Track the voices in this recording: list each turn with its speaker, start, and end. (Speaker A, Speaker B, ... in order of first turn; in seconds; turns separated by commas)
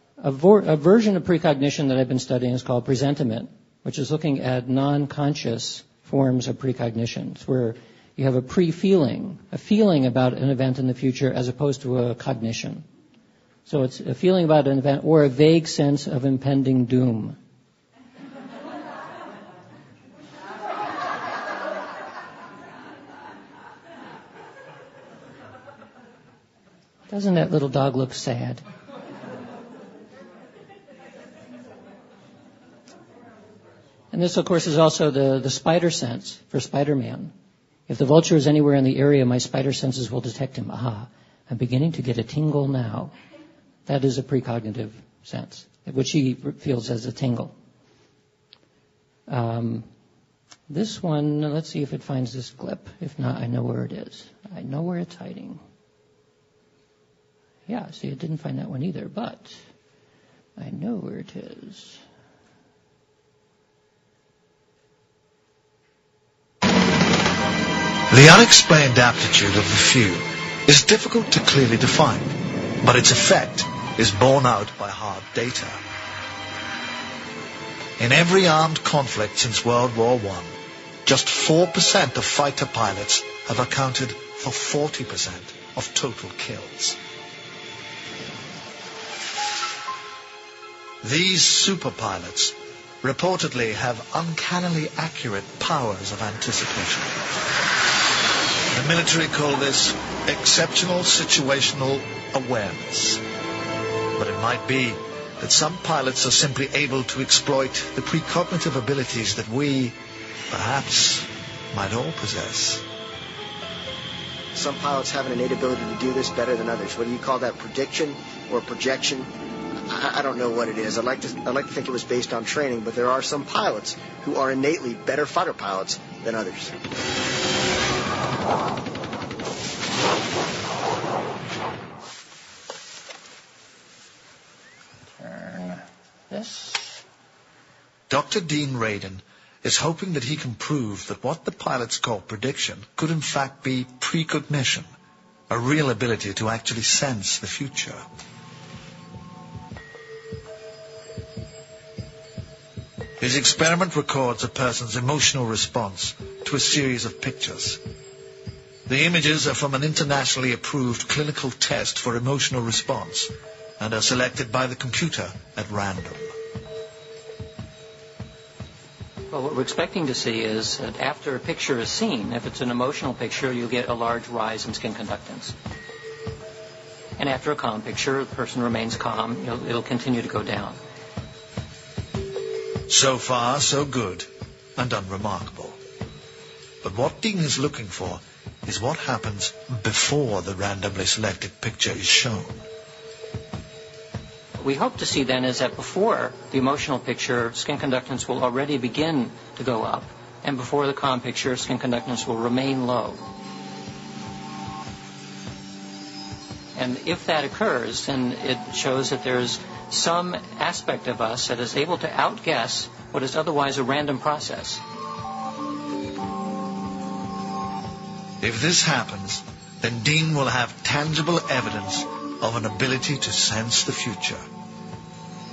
Speaker A: 0.2-12.8, Speaker A: 13.7-17.4, Speaker A: 27.1-28.6, Speaker A: 34.1-37.3, Speaker A: 37.9-43.1, Speaker A: 43.9-47.5, Speaker A: 49.3-49.9, Speaker A: 50.7-55.6, Speaker A: 57.7-59.6, Speaker A: 60.6-62.0, Speaker B: 68.1-75.8, Speaker B: 78.0-80.5, Speaker B: 81.0-87.0, Speaker B: 91.0-97.2, Speaker B: 98.7-103.2, Speaker B: 104.2-110.0, Speaker B: 110.5-112.8, Speaker C: 114.5-119.3, Speaker C: 119.9-126.7, Speaker A: 135.2-137.0, Speaker B: 138.1-144.9, Speaker B: 145.5-148.0, Speaker B: 153.2-157.8, Speaker B: 158.9-166.3, Speaker A: 169.3-175.6, Speaker A: 177.2-180.8, Speaker B: 182.9-185.8, Speaker B: 186.8-192.7, Speaker A: 194.6-203.2, Speaker A: 206.8-214.8, Speaker B: 218.4-224.4